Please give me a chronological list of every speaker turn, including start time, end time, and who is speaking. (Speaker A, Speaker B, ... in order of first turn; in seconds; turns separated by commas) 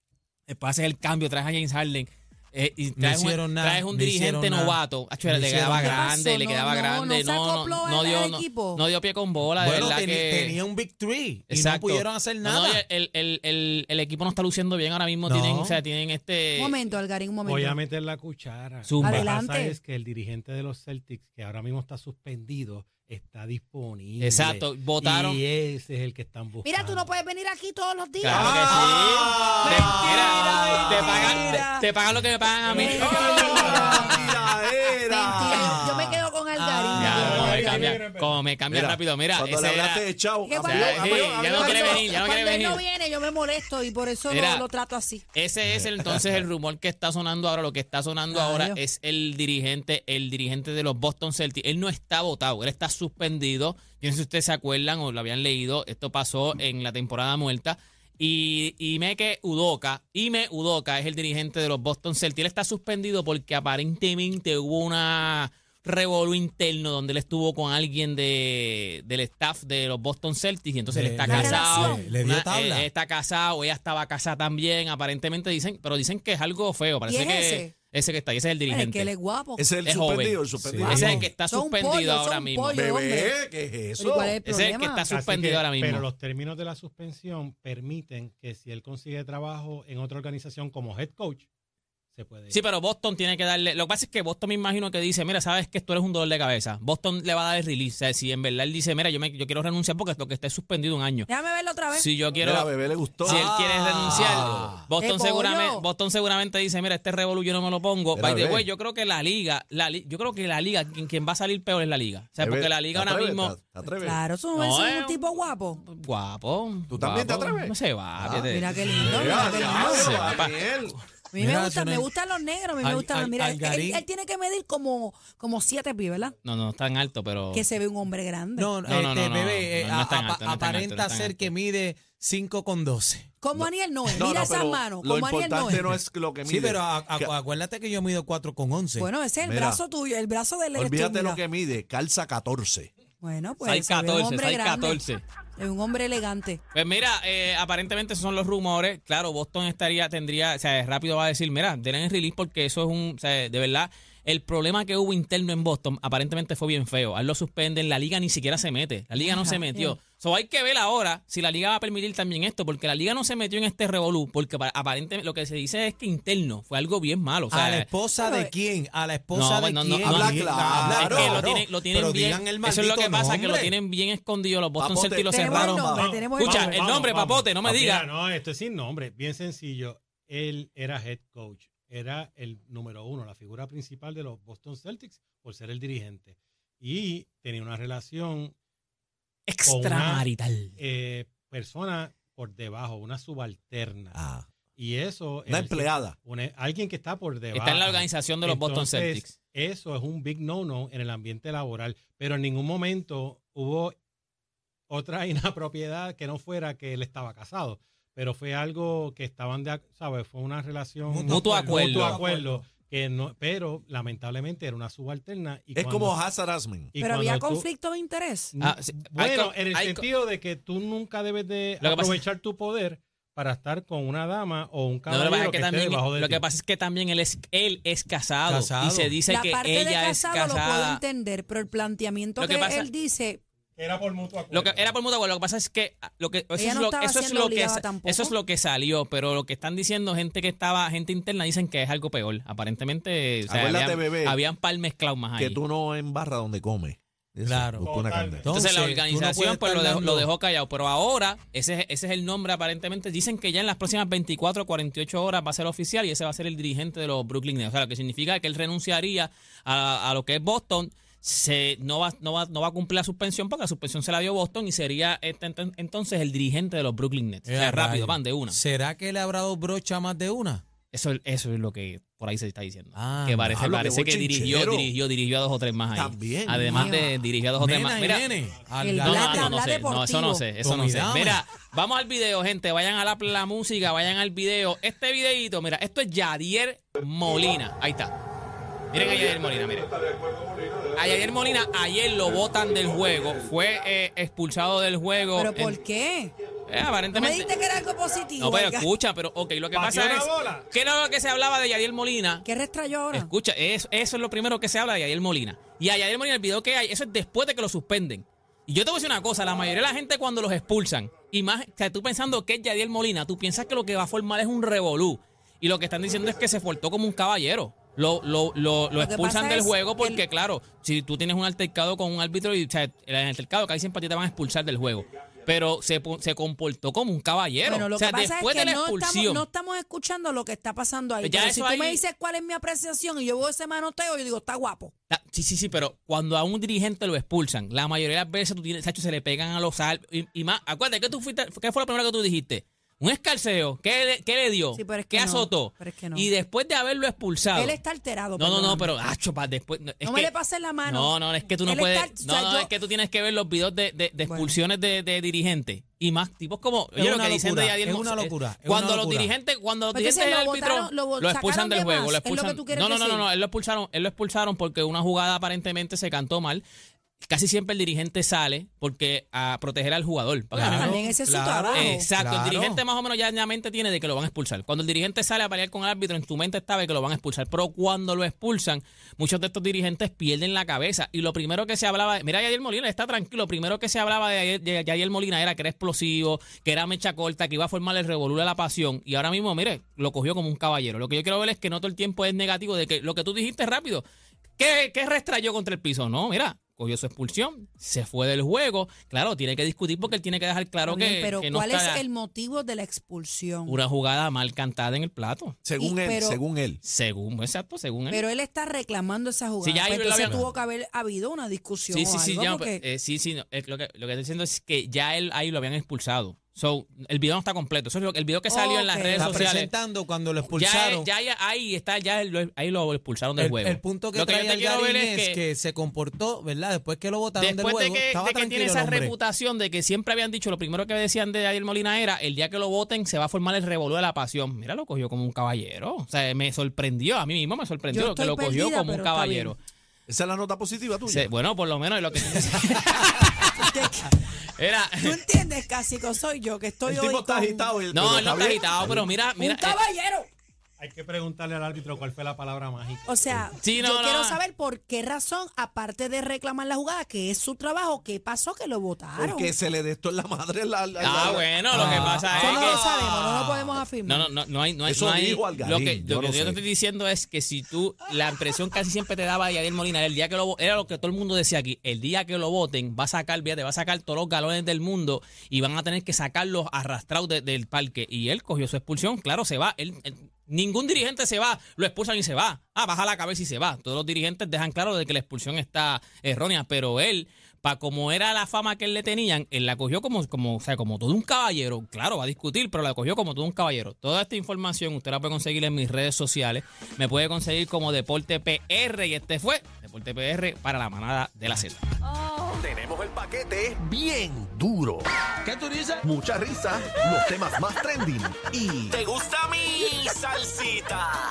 Speaker A: 0.5-10.6, Speaker B: 3.0-6.0, Speaker C: 5.8-8.8, Speaker B: 9.6-12.8, Speaker A: 11.5-16.7, Speaker B: 15.3-15.8, Speaker C: 16.6-17.8, Speaker D: 17.4-27.1, Speaker A: 18.8-19.3, Speaker C: 19.0-19.7, Speaker A: 24.2-25.4, Speaker C: 26.6-28.7, Speaker A: 28.2-33.7, Speaker E: 28.3-30.9, Speaker B: 28.5-31.4, Speaker C: 29.6-31.9, Speaker D: 30.6-31.4, Speaker D: 32.6-34.5, Speaker C: 32.7-34.2, Speaker E: 32.8-36.0, Speaker C: 35.0-37.5, Speaker B: 35.6-37.8, Speaker A: 36.9-40.0, Speaker D: 37.1-38.4, Speaker E: 38.7-42.1, Speaker C: 40.4-45.2, Speaker A: 40.6-42.8, Speaker A: 44.3-44.7, Speaker A: 45.3-79.1, Speaker E: 45.6-46.4, Speaker C: 48.3-48.8, Speaker B: 70.9-72.9, Speaker C: 71.2-72.1, Speaker C: 77.0-77.7, Speaker C: 78.7-79.8, Speaker E: 79.6-81.2, Speaker A: 79.8-82.8, Speaker B: 80.7-81.3, Speaker C: 80.7-83.3, Speaker E: 82.7-84.4, Speaker C: 84.0-85.1, Speaker A: 84.4-86.0, Speaker D: 85.1-91.5, Speaker D: 92.1-92.5, Speaker A: 92.5-101.3, Speaker C: 101.3-102.1, Speaker A: 101.9-102.7, Speaker E: 102.4-104.7, Speaker B: 103.2-104.9, Speaker A: 103.2-113.5, Speaker C: 105.0-105.9, Speaker E: 108.1-108.7, Speaker E: 112.4-114.2, Speaker C: 114.0-115.8, Speaker A: 114.5-115.2, Speaker A: 115.8-121.0, Speaker E: 116.9-120.9, Speaker C: 118.5-120.2, Speaker C: 121.3-126.3, Speaker B: 121.4-122.1, Speaker B: 122.8-124.0, Speaker A: 126.4-127.7, Speaker C: 127.5-128.7, Speaker B: 128.6-133.3, Speaker A: 128.8-131.5, Speaker C: 133.4-135.9, Speaker E: 133.5-137.3, Speaker B: 135.7-139.1, Speaker C: 139.0-141.4, Speaker E: 139.4-139.8, Speaker E: 140.7-142.9, Speaker C: 143.2-145.0, Speaker A: 143.6-145.2, Speaker C: 145.6-146.6, Speaker A: 146.7-167.9, Speaker C: 159.2-159.9, Speaker B: 167.5-173.7, Speaker C: 168.2-168.5, Speaker A: 169.3-178.0, Speaker E: 170.0-171.4, Speaker E: 174.8-176.1, Speaker C: 175.3-176.8, Speaker D: 175.9-188.5, Speaker A: 189.5-190.7, Speaker D: 189.7-190.3, Speaker D: 190.8-194.2, Speaker E: 194.1-194.5, Speaker D: 194.7-203.9, Speaker E: 195.5-196.2, Speaker A: 197.5-199.3, Speaker D: 204.9-216.2, Speaker B: 211.1-212.5, Speaker A: 211.3-212.2, Speaker E: 215.7-216.9, Speaker D: 216.9-217.7, Speaker C: 217.0-218.5, Speaker D: 218.5-226.4, Speaker A: 218.6-220.0, Speaker A: 221.8-222.2, Speaker A: 225.1-231.0, Speaker B: 228.5-229.2, Speaker C: 229.3-233.4, Speaker A: 232.4-232.9, Speaker D: 233.8-234.9, Speaker A: 234.5-245.6, Speaker C: 236.6-238.4, Speaker E: 243.5-244.4, Speaker E: 245.3-248.5, Speaker B: 247.4-250.3, Speaker D: 247.8-248.5, Speaker A: 248.5-268.6, Speaker B: 267.4-270.6, Speaker A: 270.9-278.3, Speaker B: 272.9-273.6, Speaker E: 273.5-274.9, Speaker E: 275.9-276.9, Speaker C: 276.6-277.2, Speaker B: 277.6-279.6, Speaker C: 278.8-280.5, Speaker A: 279.0-288.1, Speaker B: 280.6-281.4, Speaker A: 288.9-289.9, Speaker E: 288.9-291.2, Speaker A: 290.9-295.8, Speaker E: 292.4-293.4, Speaker C: 295.3-296.3, Speaker A: 296.7-297.6, Speaker C: 297.1-298.9, Speaker A: 298.4-302.4, Speaker D: 299.7-300.7, Speaker C: 302.4-303.3, Speaker A: 303.1-329.4, Speaker C: 318.9-320.2, Speaker C: 327.6-334.9, Speaker A: 331.2-332.0, Speaker A: 335.1-347.8, Speaker C: 344.7-346.3, Speaker C: 347.5-348.9, Speaker A: 348.4-350.3, Speaker C: 350.0-352.7, Speaker A: 350.8-366.6, Speaker C: 354.3-354.6, Speaker B: 356.9-359.3, Speaker C: 359.9-363.2, Speaker A: 367.2-371.0, Speaker B: 370.5-372.8, Speaker C: 370.8-372.1, Speaker A: 371.7-394.0, Speaker A: 394.6-402.0, Speaker C: 400.8-403.8, Speaker A: 403.7-405.6, Speaker E: 405.6-406.8, Speaker C: 405.8-406.4, Speaker A: 406.8-408.2, Speaker C: 408.1-412.8, Speaker A: 409.6-410.5, Speaker B: 410.2-410.5, Speaker A: 411.9-419.7, Speaker C: 418.5-419.3, Speaker B: 419.1-421.1, Speaker A: 420.5-425.4, Speaker B: 423.4-429.1, Speaker A: 427.4-439.6, Speaker C: 437.9-439.5, Speaker E: 440.1-441.3, Speaker A: 441.0-443.9, Speaker C: 443.5-444.2, Speaker A: 444.6-445.2, Speaker C: 445.0-447.7, Speaker E: 446.9-449.2, Speaker A: 447.9-449.8, Speaker C: 449.4-450.3, Speaker D: 450.8-453.3, Speaker C: 453.1-459.5, Speaker A: 453.6-454.4, Speaker E: 459.1-462.2, Speaker A: 461.0-462.8, Speaker B: 461.7-463.7, Speaker C: 462.3-464.3, Speaker A: 464.0-501.8, Speaker E: 464.8-466.6, Speaker F: 502.5-505.0, Speaker B: 505.4-506.0, Speaker F: 506.0-510.9, Speaker E: 506.6-508.0, Speaker E: 508.7-510.9